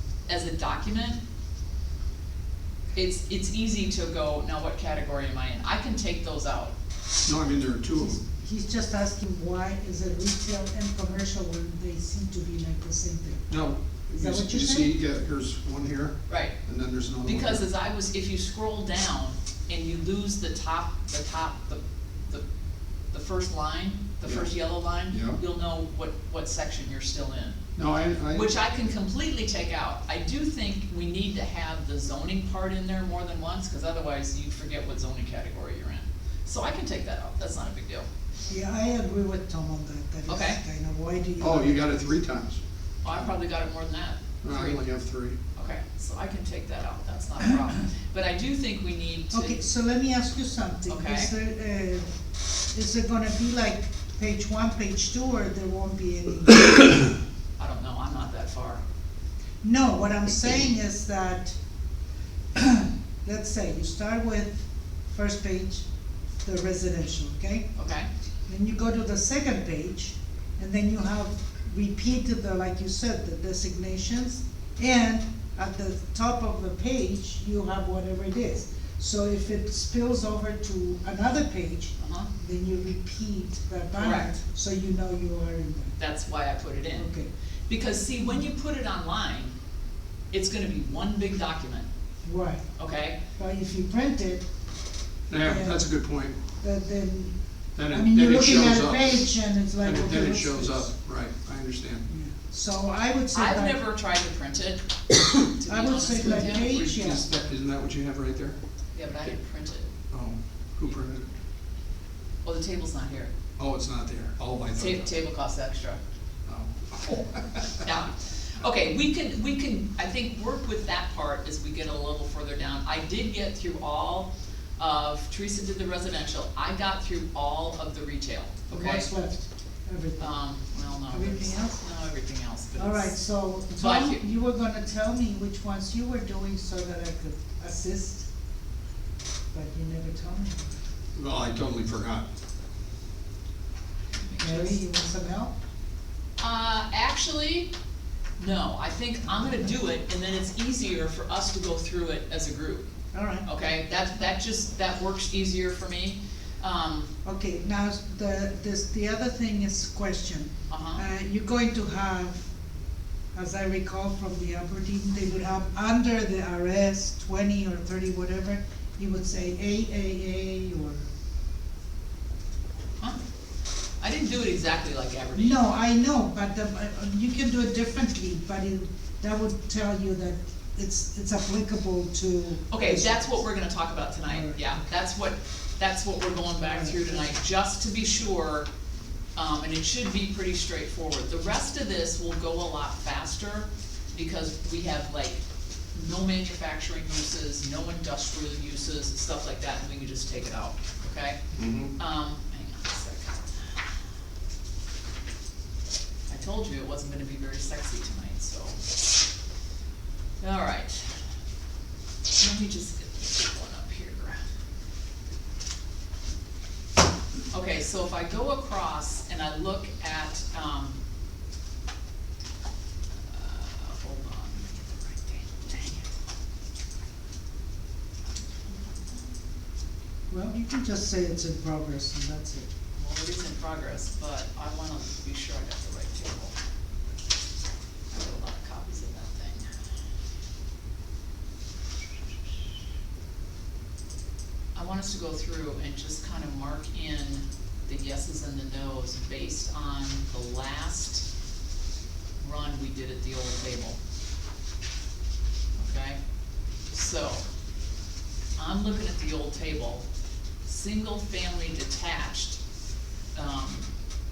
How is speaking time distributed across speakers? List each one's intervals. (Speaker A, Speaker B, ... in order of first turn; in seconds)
Speaker A: 0.3-1.2, 2.9-6.7, 16.3-16.6, 17.2-22.4, 23.1-27.6, 28.3-38.1, 40.3-40.6, 43.0-44.8, 45.5-49.6, 50.9-51.3, 57.6-58.8, 67.8-68.1, 82.0-82.3, 84.0-84.3, 86.0-87.1, 87.7-89.5, 90.3-91.9, 92.8-93.2, 103.3-104.8, 105.5-106.9, 109.0-109.9, 112.4-113.3, 114.8-116.0, 117.8-129.1, 130.2-133.2, 133.8-134.2, 144.1-144.8, 146.4-147.7, 148.4-152.9, 153.4-157.1, 160.7-161.0, 174.0-175.6, 182.7-188.7, 189.4-195.4, 195.9-201.4, 202.0-203.8, 206.3-208.8, 210.4-211.1, 212.3-214.4, 217.5-221.0, 223.3-226.1, 228.4-229.2, 233.0-236.6, 238.1-239.8, 244.8-251.3, 252.4-254.0, 255.8-256.2, 256.9-257.4, 258.6-260.1, 260.6-262.6, 263.4-263.9
Speaker B: 7.2-8.2, 13.5-17.6, 24.2-24.5, 25.1-25.4, 27.8-28.5, 41.4-42.6, 44.4-45.4, 95.3-96.4, 97.8-102.1, 106.2-108.6, 110.1-111.3, 113.6-115.2, 116.5-117.7, 141.2-142.3, 201.5-201.9
Speaker C: 8.0-13.5, 14.2-14.9, 38.5-41.9, 49.3-52.1, 52.7-57.0, 59.6-61.6, 62.5-65.9, 66.4-67.7, 68.5-86.0, 87.0-87.3, 92.2-92.6, 93.4-94.5, 95.4-95.9, 96.6-97.4, 97.9-100.9, 102.1-103.8, 105.7-107.2, 128.7-130.3, 131.1-131.8, 132.8-138.3, 139.5-140.8, 144.4-145.5, 149.3-149.8, 153.1-153.5, 157.2-162.5, 163.3-171.1, 175.3-183.2, 184.3-184.9, 186.6-187.3, 230.3-232.7